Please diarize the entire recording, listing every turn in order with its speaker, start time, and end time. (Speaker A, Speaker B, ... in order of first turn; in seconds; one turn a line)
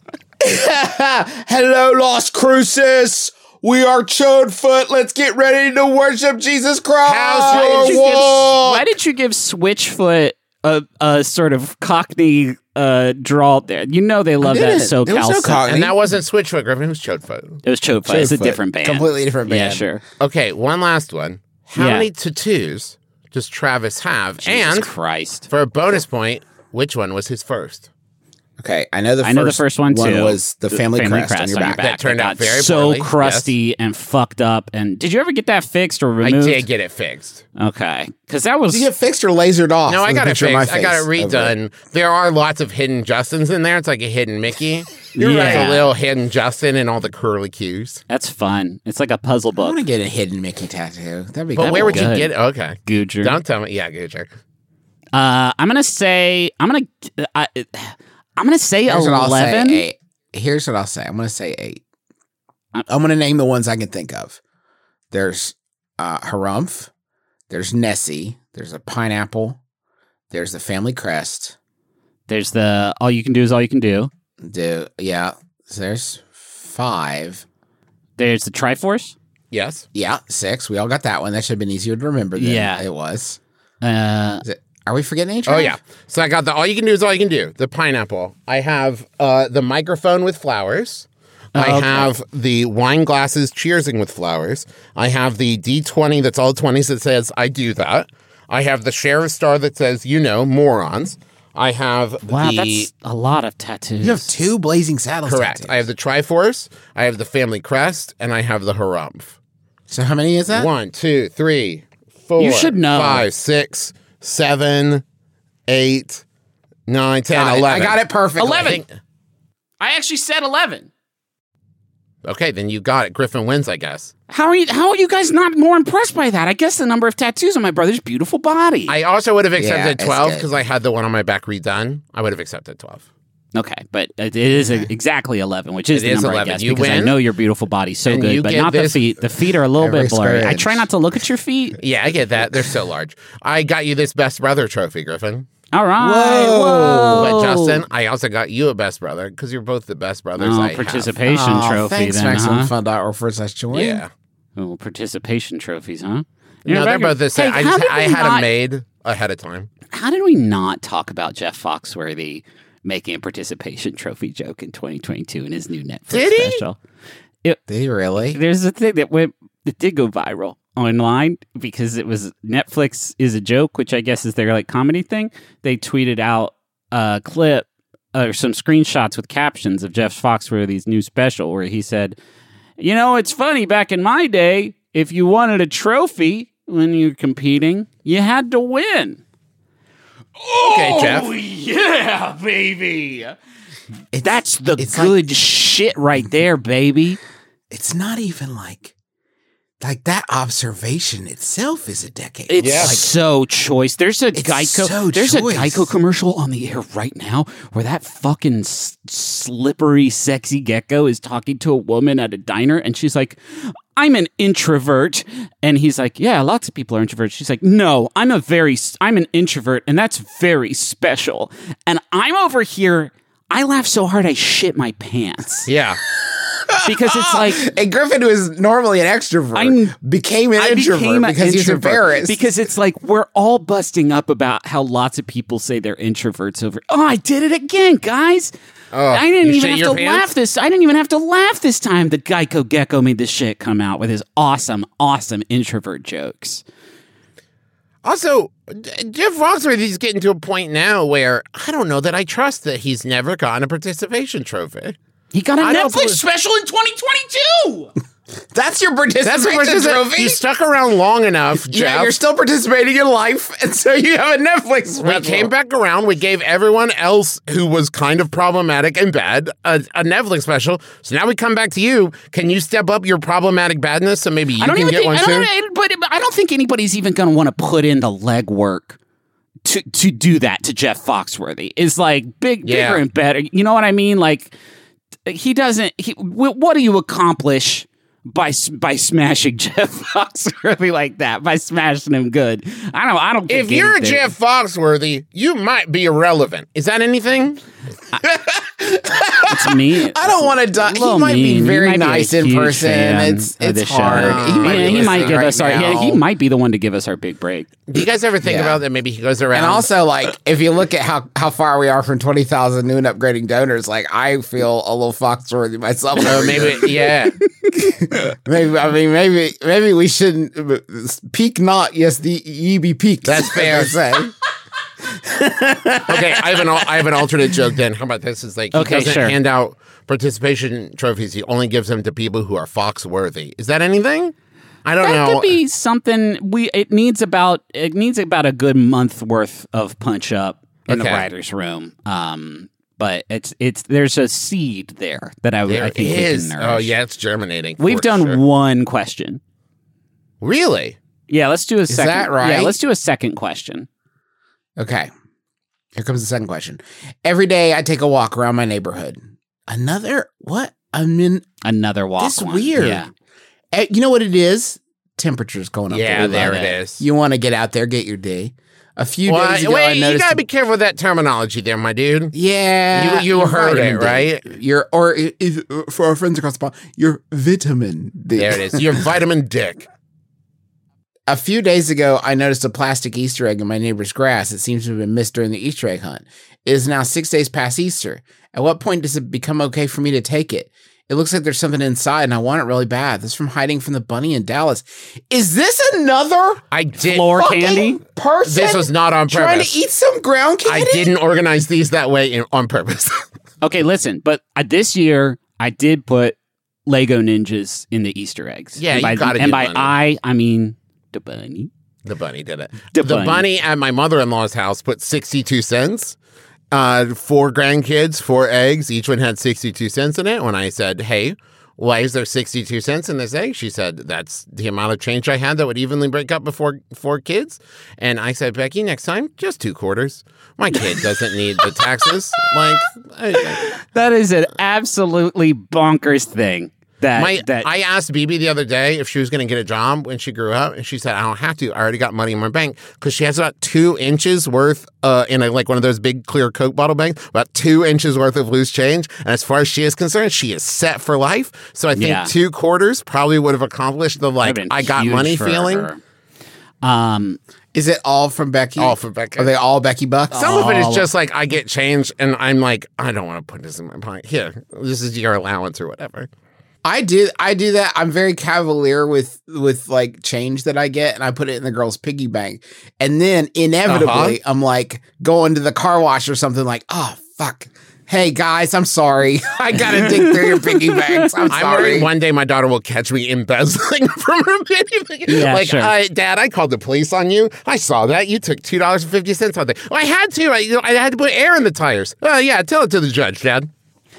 Speaker A: 0.4-8.9
Speaker B: 7.0-8.5
Speaker C: 7.5-15.6
Speaker A: 14.4-16.0
Speaker B: 15.7-17.6
Speaker C: 17.6-20.0
Speaker A: 18.1-19.9
Speaker B: 20.2-24.9
Speaker C: 21.8-22.1
Speaker C: 24.4-25.5
Speaker B: 25.5-27.9
Speaker A: 28.6-31.9
Speaker C: 29.2-36.7
Speaker B: 31.8-33.5
Speaker B: 36.2-37.4
Speaker C: 37.6-38.9
Speaker A: 38.7-41.5
Speaker B: 39.9-48.0
Speaker C: 45.1-45.9
Speaker A: 45.2-45.8
Speaker C: 48.1-49.8
Speaker A: 49.6-52.2
Speaker B: 51.5-54.3
Speaker C: 51.6-52.3
Speaker C: 52.9-53.4
Speaker C: 55.1-59.9
Speaker A: 58.9-61.8
Speaker A: 62.9-64.4
Speaker A: 65.1-66.9
Speaker A: 67.5-69.6
Speaker A: 70.3-71.6
Speaker C: 72.3-74.1
Speaker A: 74.4-77.5
Speaker C: 78.2-79.2
Speaker B: 79.5-79.8
Speaker A: 79.9-83.4
Speaker C: 82.4-82.8
Speaker C: 83.8-84.5
Speaker A: 84.4-85.8
Speaker B: 85.5-102.9
Speaker C: 91.5-92.1
Speaker C: 102.3-104.3
Speaker A: 104.0-105.8
Speaker B: 105.3-109.4
Speaker A: 109.9-110.7
Speaker B: 110.5-115.0
Speaker C: 112.4-113.2
Speaker B: 115.7-116.2
Speaker B: 116.9-118.9
Speaker A: 117.3-118.8
Speaker C: 118.4-118.8
Speaker C: 119.8-120.9
Speaker B: 122.2-124.1
Speaker C: 124.3-129.0
Speaker B: 128.9-133.0
Speaker A: 129.6-130.5
Speaker C: 133.5-141.8
Speaker B: 135.9-137.2
Speaker B: 138.1-139.1
Speaker A: 139.8-140.9
Speaker B: 141.8-145.5
Speaker C: 145.7-147.8
Speaker A: 146.0-147.4
Speaker B: 147.2-151.2
Speaker C: 150.4-152.7
Speaker A: 151.2-154.0
Speaker B: 153.7-154.1
Speaker C: 154.6-158.5
Speaker B: 156.7-159.7
Speaker C: 159.9-166.8
Speaker B: 166.1-166.6
Speaker A: 167.7-168.4
Speaker C: 168.3-182.2
Speaker C: 182.8-189.2
Speaker C: 190.4-193.4
Speaker B: 190.7-191.3
Speaker A: 194.1-195.2
Speaker C: 194.2-197.2
Speaker A: 197.7-198.9
Speaker A: 199.8-203.1
Speaker C: 202.5-225.7
Speaker B: 202.6-203.0
Speaker A: 204.3-205.9
Speaker B: 225.7-226.0
Speaker A: 226.2-232.4
Speaker C: 226.8-227.6
Speaker C: 229.6-229.9
Speaker C: 230.6-238.5
Speaker B: 238.9-240.3
Speaker C: 239.1-246.6
Speaker B: 248.0-255.0
Speaker C: 255.3-257.9
Speaker B: 255.6-256.2
Speaker A: 258.5-260.4
Speaker B: 259.2-262.1
Speaker A: 261.5-265.5
Speaker B: 265.0-275.5
Speaker C: 274.6-279.0
Speaker C: 279.6-284.6
Speaker B: 282.6-283.0
Speaker C: 285.3-294.3
Speaker B: 293.5-297.6
Speaker A: 298.2-306.2
Speaker C: 299.5-307.7
Speaker B: 304.1-306.0
Speaker B: 307.9-309.9
Speaker A: 308.4-308.8
Speaker A: 309.5-317.2
Speaker B: 316.2-317.4
Speaker A: 317.7-324.3
Speaker B: 323.2-323.9
Speaker A: 325.4-325.8
Speaker C: 325.4-326.1
Speaker B: 326.1-334.3
Speaker C: 328.7-329.4
Speaker B: 334.9-335.6
Speaker C: 335.0-346.9
Speaker B: 340.9-341.3
Speaker B: 345.7-348.4
Speaker C: 347.8-349.4
Speaker B: 350.4-351.0
Speaker C: 351.3-353.9
Speaker A: 351.9-352.8
Speaker A: 354.8-355.1
Speaker A: 355.9-361.5
Speaker C: 361.6-363.1
Speaker A: 362.2-363.0
Speaker A: 363.7-370.4
Speaker B: 365.9-367.0
Speaker C: 366.2-366.8
Speaker B: 369.3-372.3
Speaker A: 372.3-379.0
Speaker B: 372.9-374.5
Speaker B: 378.4-379.9
Speaker A: 381.3-396.6
Speaker B: 396.7-397.5
Speaker C: 397.0-398.0
Speaker A: 397.3-401.1
Speaker B: 398.5-399.7
Speaker B: 400.6-403.2
Speaker C: 403.6-411.7
Speaker B: 408.8-409.9
Speaker B: 412.1-416.2
Speaker C: 412.9-413.4
Speaker B: 416.7-433.7
Speaker C: 431.6-432.1
Speaker C: 433.4-437.7
Speaker B: 437.2-455.9
Speaker C: 451.9-452.3
Speaker C: 454.4-456.0
Speaker C: 456.8-457.4
Speaker A: 457.7-460.7
Speaker B: 458.8-459.5
Speaker C: 460.3-461.1
Speaker B: 460.3-466.3
Speaker A: 466.8-482.1
Speaker B: 473.9-474.4
Speaker C: 479.8-481.5
Speaker B: 481.5-493.7
Speaker C: 485.3-485.9